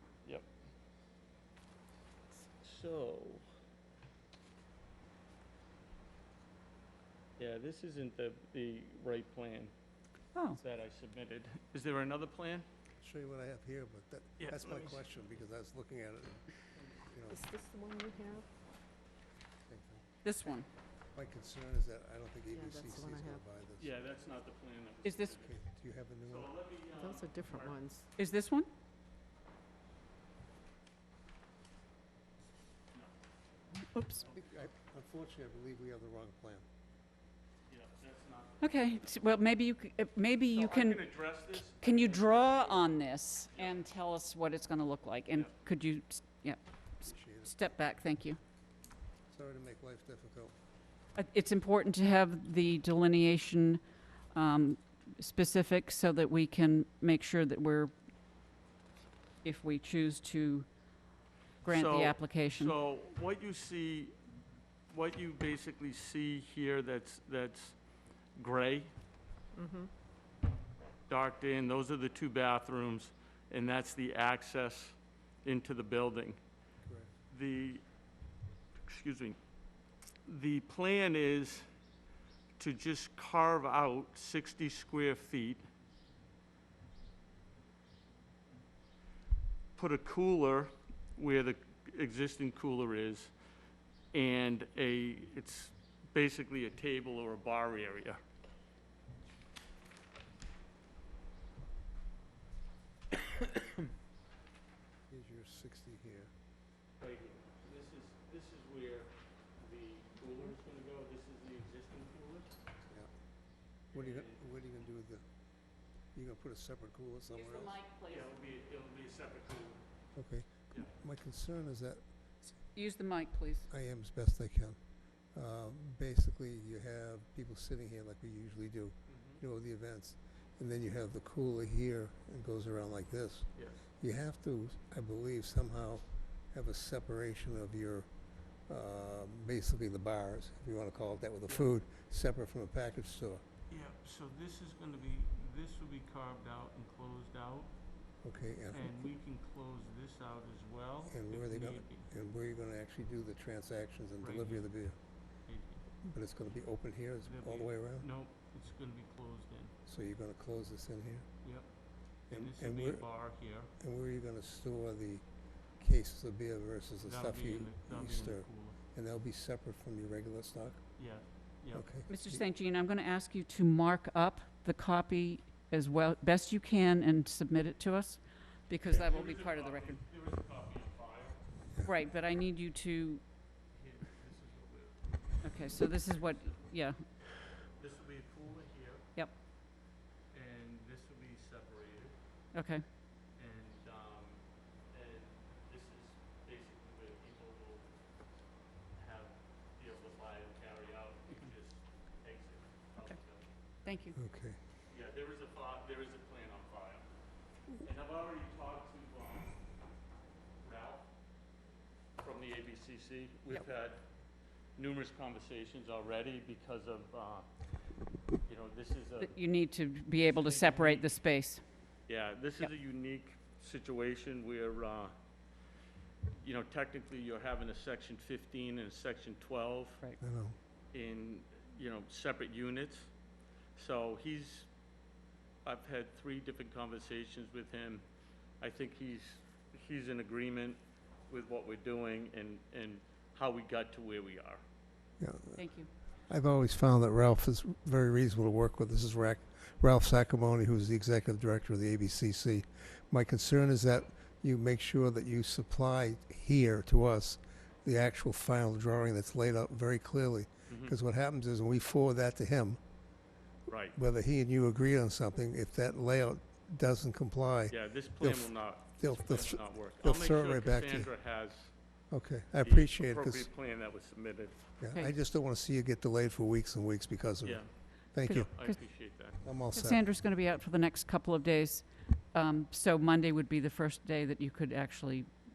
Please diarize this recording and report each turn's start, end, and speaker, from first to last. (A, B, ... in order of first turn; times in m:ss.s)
0:02.6-0:03.4 A
0:07.4-0:09.7 A
0:10.3-0:10.6 B
0:10.5-0:12.7 A
0:13.0-0:16.5 C
0:14.4-0:15.0 A
0:16.7-0:17.1 A
0:17.1-0:17.4 C
0:17.3-0:18.5 D
0:19.7-0:20.0 C
0:20.2-0:20.7 B
0:21.1-0:24.0 C
0:22.5-0:23.4 D
0:23.8-0:25.6 A
0:25.0-0:25.3 B
0:25.4-0:26.5 C
0:26.2-0:27.8 A
0:26.9-0:28.1 D
0:28.2-0:28.7 B
0:33.8-0:34.2 B
0:34.3-0:36.6 C
0:37.7-0:39.2 A
0:38.6-0:41.1 B
0:40.5-0:42.9 A
0:41.6-0:46.6 B
0:43.5-0:43.9 A
0:47.0-0:47.5 C
0:47.3-0:48.4 B
0:49.3-0:50.5 C
0:51.2-0:53.8 B
0:54.3-0:57.9 B
0:59.4-1:00.7 B
1:01.6-1:02.7 B
1:01.6-1:04.1 A
1:04.9-1:07.8 A
1:08.4-1:08.9 A
1:09.5-1:09.9 D
1:11.1-1:16.4 A
1:16.8-1:17.1 C
1:17.3-1:17.8 A
1:18.8-1:19.4 A
1:20.2-1:21.7 A
1:22.6-1:25.6 A
1:29.8-1:33.3 A
1:34.1-1:38.2 A
1:45.1-1:46.3 C
1:47.0-1:52.5 A
1:53.9-1:55.2 C
1:53.9-1:54.4 A
1:56.1-1:57.8 C
1:57.3-1:58.3 B
1:58.1-1:59.8 A
2:00.1-2:02.0 C
2:02.7-2:03.7 B
2:03.7-2:04.8 C
2:05.3-2:18.1 C
2:09.1-2:09.4 A
2:13.5-2:13.9 A
2:18.7-2:23.4 C
2:21.4-2:21.7 A
2:23.7-2:27.8 A
2:28.2-2:28.9 C
2:28.7-2:32.0 A
2:31.1-2:35.0 C
2:34.2-2:34.7 A
2:35.4-2:35.8 A
2:36.0-2:38.1 C
2:37.2-2:39.7 A
2:39.9-2:41.2 C
2:42.3-2:43.7 A
2:42.3-2:43.0 C
2:43.8-2:45.2 C
2:45.8-2:50.8 C
2:47.0-2:48.8 A
2:51.0-2:51.8 A
2:51.7-2:52.4 C
2:52.1-3:00.0 B
2:59.0-3:01.5 A
3:01.8-3:03.2 B
3:03.7-3:05.5 A
3:05.4-3:07.0 B
3:07.7-3:09.0 A
3:09.1-3:09.4 B
3:10.3-3:12.2 A
3:12.5-3:12.8 B
3:13.4-3:18.3 A
3:18.9-3:23.5 A
3:23.8-3:24.2 B
3:24.1-3:24.6 C
3:24.9-3:27.1 A
3:27.7-3:29.6 A
3:30.6-3:31.1 A
3:32.2-3:34.0 A
3:34.8-3:37.5 A
3:38.4-3:39.4 A
3:39.2-3:41.6 B
3:40.2-3:41.1 A
3:42.1-3:45.1 A
3:46.4-3:50.0 A
3:50.2-3:50.6 C
3:50.9-3:53.1 A
3:53.7-3:54.7 A
3:55.6-3:58.0 A
3:58.6-4:04.6 A
4:05.2-4:05.7 C
4:05.6-4:05.9 B
4:06.3-4:22.8 C
4:20.7-4:20.9 A
4:23.7-4:24.0 A
4:24.0-4:31.1 C
4:27.7-4:31.7 A
4:32.1-4:33.5 C
4:32.6-4:34.6 A
4:34.8-4:38.5 C
4:37.4-4:39.4 A
4:38.3-4:38.8 B
4:39.4-4:40.0 C
4:39.7-4:45.3 B